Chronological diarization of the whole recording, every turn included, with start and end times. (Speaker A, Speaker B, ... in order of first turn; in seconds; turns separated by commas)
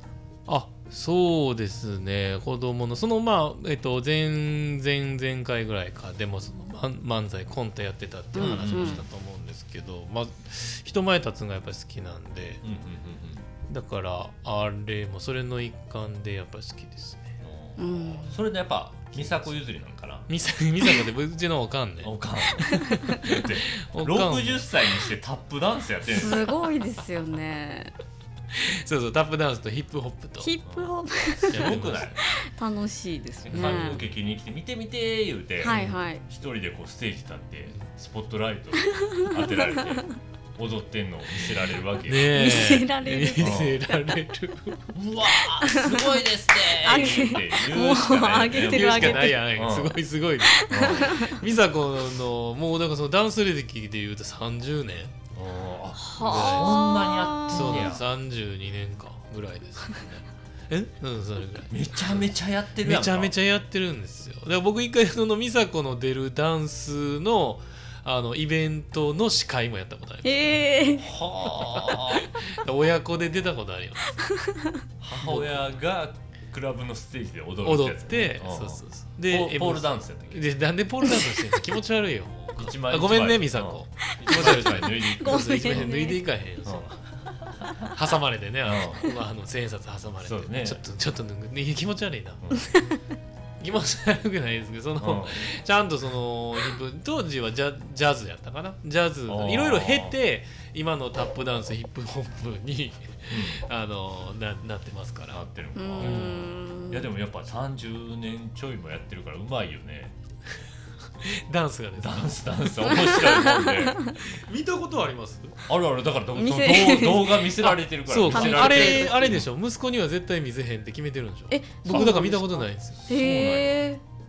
Speaker A: 0.5-12.6, Speaker B: 8.3-9.0, Speaker C: 8.4-9.0, Speaker C: 12.6-13.5, Speaker A: 13.7-17.3, Speaker C: 17.4-20.3, Speaker B: 17.8-18.4, Speaker A: 19.1-19.5, Speaker A: 20.3-25.0, Speaker C: 22.0-26.6, Speaker B: 26.1-27.9, Speaker A: 28.5-30.5, Speaker B: 30.4-34.0, Speaker C: 30.6-32.2, Speaker A: 31.5-32.0, Speaker C: 33.4-42.5, Speaker A: 33.5-34.0, Speaker B: 35.6-36.2, Speaker A: 35.7-36.0, Speaker B: 38.8-40.1, Speaker A: 42.1-44.8, Speaker B: 42.3-44.2, Speaker C: 43.4-43.8, Speaker C: 44.9-50.0, Speaker B: 45.6-46.2, Speaker B: 46.8-49.4, Speaker A: 48.5-55.1, Speaker B: 50.5-51.4, Speaker C: 50.7-51.3, Speaker C: 55.3-58.0, Speaker B: 56.0-58.0, Speaker A: 56.2-56.9, Speaker A: 57.5-62.2, Speaker C: 61.7-63.3, Speaker A: 62.8-74.3, Speaker B: 70.2-71.1, Speaker C: 71.0-72.3, Speaker B: 74.3-74.8, Speaker C: 75.0-80.5, Speaker A: 75.1-75.6, Speaker A: 77.6-87.0, Speaker C: 82.4-86.0, Speaker B: 84.2-86.2, Speaker C: 86.6-87.9, Speaker A: 87.8-92.5, Speaker C: 88.6-89.1, Speaker C: 90.2-90.8, Speaker C: 92.4-92.7, Speaker A: 93.6-105.4, Speaker C: 95.0-95.5, Speaker C: 99.3-100.2, Speaker C: 103.3-103.6, Speaker C: 105.3-110.1, Speaker B: 105.8-107.1, Speaker A: 106.0-106.5, Speaker A: 111.2-112.9, Speaker C: 112.0-114.1, Speaker B: 112.9-114.2, Speaker A: 114.2-115.7, Speaker C: 115.7-119.5, Speaker B: 116.3-117.7, Speaker A: 117.6-123.0, Speaker B: 118.3-119.3, Speaker B: 121.5-124.0, Speaker C: 121.9-122.3, Speaker C: 122.9-123.9